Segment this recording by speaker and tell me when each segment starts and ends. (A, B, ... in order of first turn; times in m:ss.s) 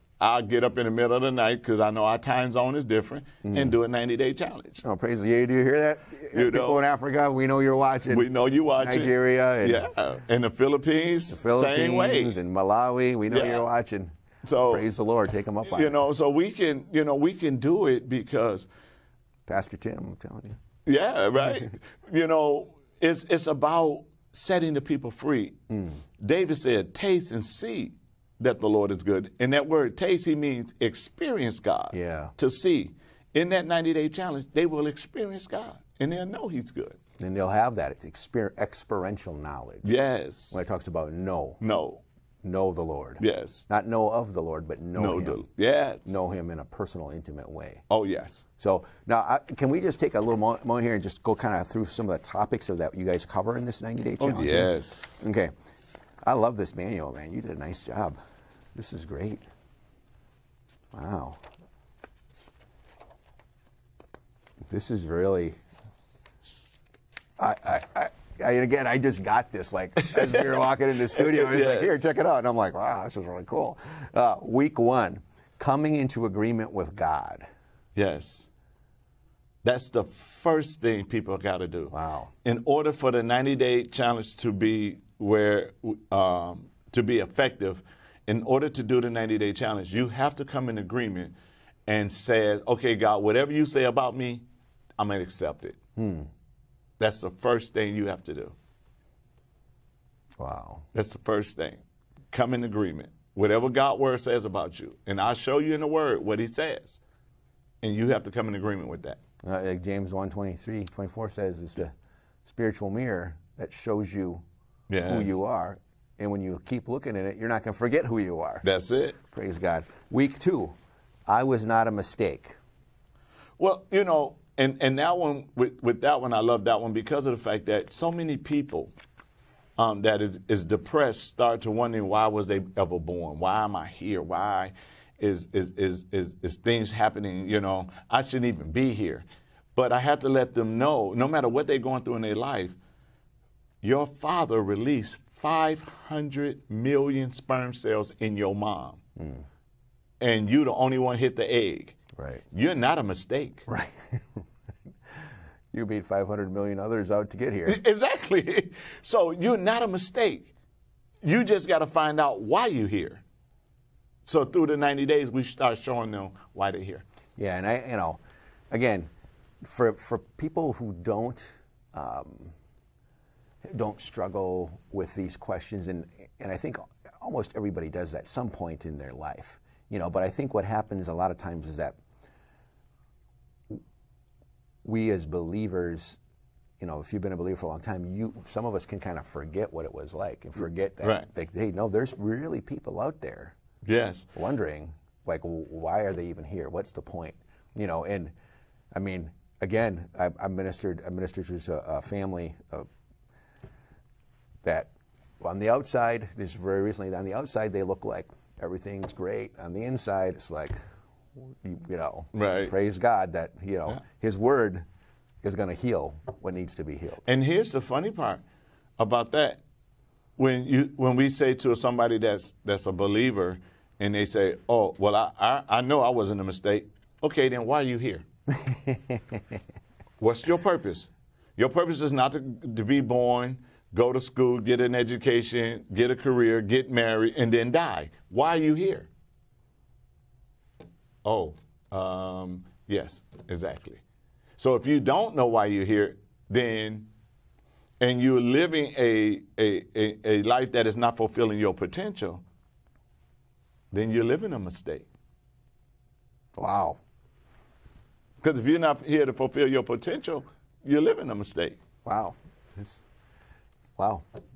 0:00.2-0:04.8 A
0:03.4-0:03.8 B
0:04.8-0:08.3 B
0:06.3-0:06.8 A
0:08.1-0:12.4 A
0:08.8-0:09.9 B
0:11.3-0:14.1 B
0:13.3-0:13.7 A
0:14.4-0:14.9 A
0:14.7-0:16.0 B
0:15.6-0:18.7 A
0:19.5-0:20.6 B
0:20.8-0:25.6 A
0:25.7-0:26.0 B
0:26.2-0:37.0 A
0:31.9-0:32.3 B
0:37.2-0:39.9 B
0:39.8-0:40.7 A
0:40.5-0:41.6 B
0:41.6-0:42.0 A
0:42.4-0:45.4 B
0:43.2-0:43.7 A
0:45.0-0:46.2 A
0:46.1-0:47.8 B
0:47.9-0:48.4 A
0:48.6-0:55.5 B
0:54.2-0:55.3 A
0:56.2-0:58.2 B
0:58.7-0:59.4 B
1:00.9-1:01.4 B
1:04.7-1:05.6 B
1:07.4-1:17.4 B
1:10.0-1:10.5 A
1:11.1-1:12.0 A
1:17.9-1:18.5 A
1:19.6-1:31.3 A
1:21.9-1:22.3 B
1:31.9-1:34.4 A
1:35.0-1:35.8 A
1:36.0-1:36.3 B
1:37.0-1:38.6 A
1:40.4-1:40.8 B
1:40.9-1:47.0 A
1:47.8-1:49.2 A
1:49.4-1:51.9 B
1:52.4-1:54.4 B
1:54.9-1:55.4 A
1:55.0-1:58.6 B
1:58.6-1:59.2 A
1:59.2-2:00.7 B
2:01.3-2:02.6 B
2:03.6-2:08.9 A
2:09.8-2:22.8 A
2:23.8-2:29.0 A
2:29.2-2:29.4 B
2:30.2-2:32.0 A
2:32.2-2:32.4 B
2:32.5-2:33.7 A
2:33.7-2:34.4 B
2:35.7-2:37.8 B
2:37.7-2:40.5 A
2:41.2-2:43.2 A
2:44.2-2:47.0 A
2:47.4-2:48.2 B
2:48.7-2:49.1 B
2:49.6-2:52.5 B
2:53.6-3:02.0 B
3:04.8-3:06.2 B
3:06.8-3:13.6 B
3:11.0-3:11.3 A
3:13.8-3:14.3 A
3:14.3-3:18.3 B
3:18.9-3:22.9 B
3:24.6-3:30.8 B
3:31.4-3:34.8 B
3:32.3-3:32.7 A
3:35.4-3:37.2 B
3:37.2-3:38.4 A
3:39.0-3:39.6 A
3:40.4-3:48.2 A
3:48.5-3:49.4 B
3:50.2-3:59.1 A
4:01.2-4:04.0 A
4:04.6-4:07.1 A
4:08.0-4:12.4 A
4:13.9-4:15.1 A
4:16.6-4:17.0 B
4:18.4-4:21.8 A
4:22.0-4:23.0 B
4:24.0-4:24.2 B